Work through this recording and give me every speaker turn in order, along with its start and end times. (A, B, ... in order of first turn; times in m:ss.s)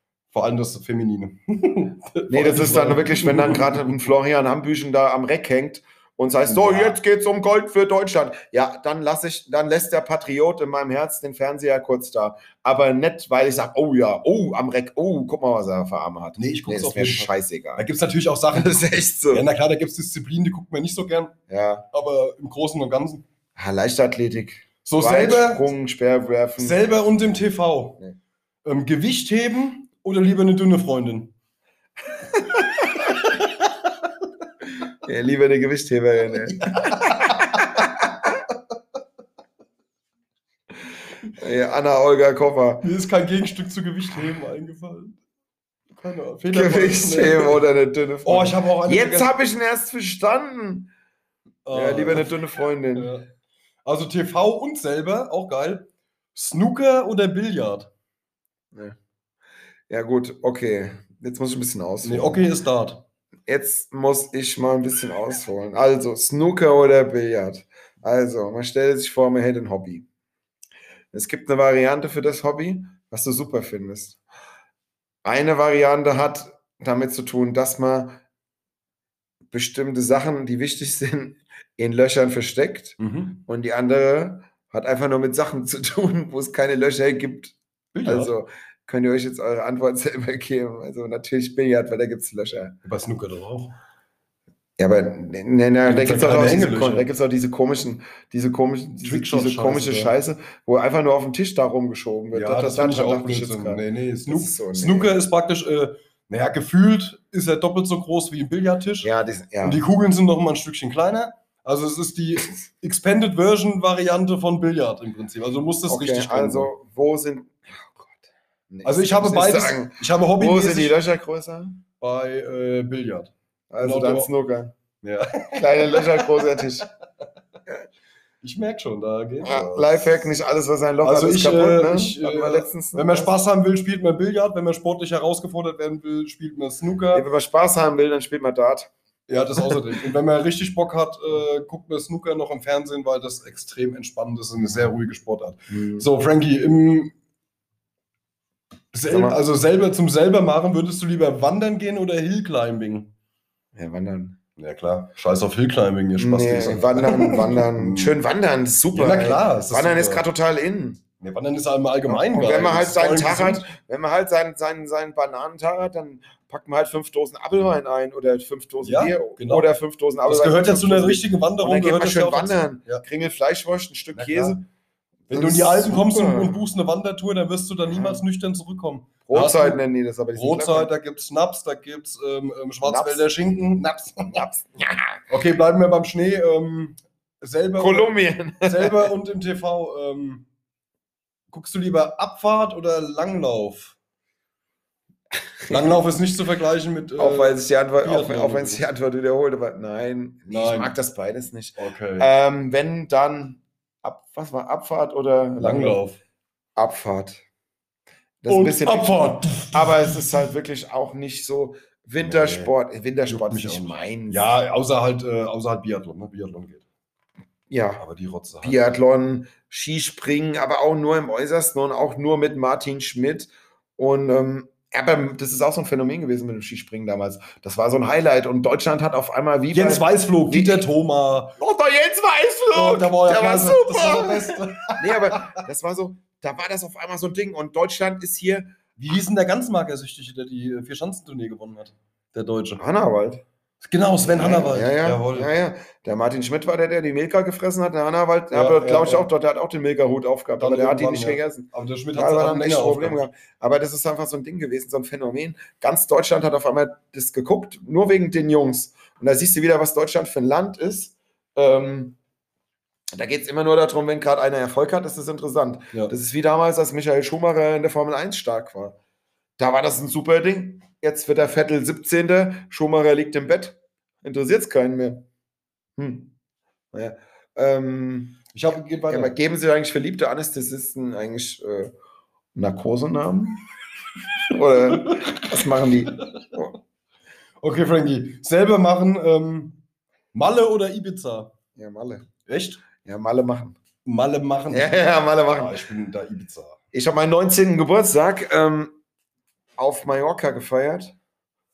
0:00.3-0:03.9 A
0:02.3-0:17.8 B
0:06.5-0:07.0 A
0:16.4-0:21.4 A
0:18.5-0:19.4 B
0:21.5-0:21.8 B
0:21.9-0:23.2 A
0:23.6-0:26.8 B
0:24.8-0:25.7 A
0:26.6-0:28.0 A
0:28.6-0:31.3 A
0:32.3-0:33.0 B
0:35.0-0:38.2 B
0:36.5-0:37.7 A
0:41.3-0:42.9 B
0:42.8-0:45.2 A
0:45.9-0:47.6 A
0:46.5-0:50.9 B
0:48.2-0:49.3 A
0:51.6-0:52.4 A
0:51.7-0:53.1 B
0:52.9-0:53.3 A
0:53.8-0:57.9 A
0:59.9-1:02.4 B
1:02.0-1:03.0 A
1:03.5-1:10.0 B
1:11.1-1:14.2 B
1:15.2-1:18.2 B
1:19.5-1:32.8 B
1:23.0-1:23.4 A
1:27.9-1:28.3 A
1:32.8-1:33.8 A
1:34.8-1:45.2 B
1:35.8-1:37.1 A
1:39.0-1:40.1 A
1:42.3-1:49.1 A
1:49.0-1:49.8 B
1:49.6-1:56.7 A
1:55.9-2:01.8 B
1:58.8-2:01.0 A
2:02.0-2:04.3 A
2:03.7-2:04.7 B
2:05.0-2:06.6 A
2:05.3-2:06.9 B
2:08.4-2:10.2 A
2:09.4-2:13.3 B
2:11.0-2:17.3 A
2:17.1-2:18.9 B
2:19.3-2:27.1 A
2:25.7-2:26.1 B
2:28.9-2:33.1 A
2:29.1-2:29.4 B
2:33.7-2:34.4 B
2:34.6-2:38.1 A
2:36.2-2:41.0 B
2:38.9-2:40.3 A
2:41.2-2:43.7 A
2:42.1-2:54.6 B
2:48.8-2:49.7 A
2:50.2-2:53.0 A
2:54.1-2:54.6 A
2:55.3-2:59.8 A
2:55.3-2:56.6 B
2:57.9-2:58.2 B
2:59.3-3:00.9 B
3:00.3-3:04.4 A
3:02.8-3:03.4 B
3:04.3-3:05.2 B
3:05.3-3:10.5 A
3:07.8-3:09.1 B
3:11.5-3:14.0 A
3:15.6-3:15.9 B
3:15.7-3:18.9 A
3:17.2-3:26.0 B
3:20.5-3:20.9 A
3:21.8-3:22.3 A
3:25.6-3:26.2 A
3:26.8-3:27.4 B
3:28.4-3:34.5 B
3:28.5-3:30.5 A
3:32.2-3:32.7 A
3:33.3-3:36.8 A
3:37.7-3:38.0 B
3:38.0-3:38.9 A
3:38.6-3:50.8 B
3:49.7-3:51.6 A
3:51.6-3:58.7 B
3:52.7-3:55.6 A
3:59.0-4:02.8 A
4:02.8-4:03.4 B
4:03.8-4:05.5 A
4:04.3-4:22.2 B
4:08.5-4:09.3 A
4:10.6-4:13.2 A
4:23.1-4:29.0 B
4:29.6-4:35.2 B
4:36.0-4:36.3 B
4:36.9-4:38.5 B
4:38.5-4:39.4 A
4:39.0-4:41.9 B
4:42.5-4:43.6 B
4:44.3-4:46.7 B
4:45.0-4:45.4 A
4:46.1-4:46.4 A
4:47.6-4:49.8 A
4:50.3-4:51.5 A
4:51.8-4:52.3 B
4:52.4-4:52.8 A
4:53.0-4:53.8 B
4:54.0-4:56.8 A
4:54.7-4:55.8 B
4:56.9-4:59.0 B
4:59.8-5:01.2 B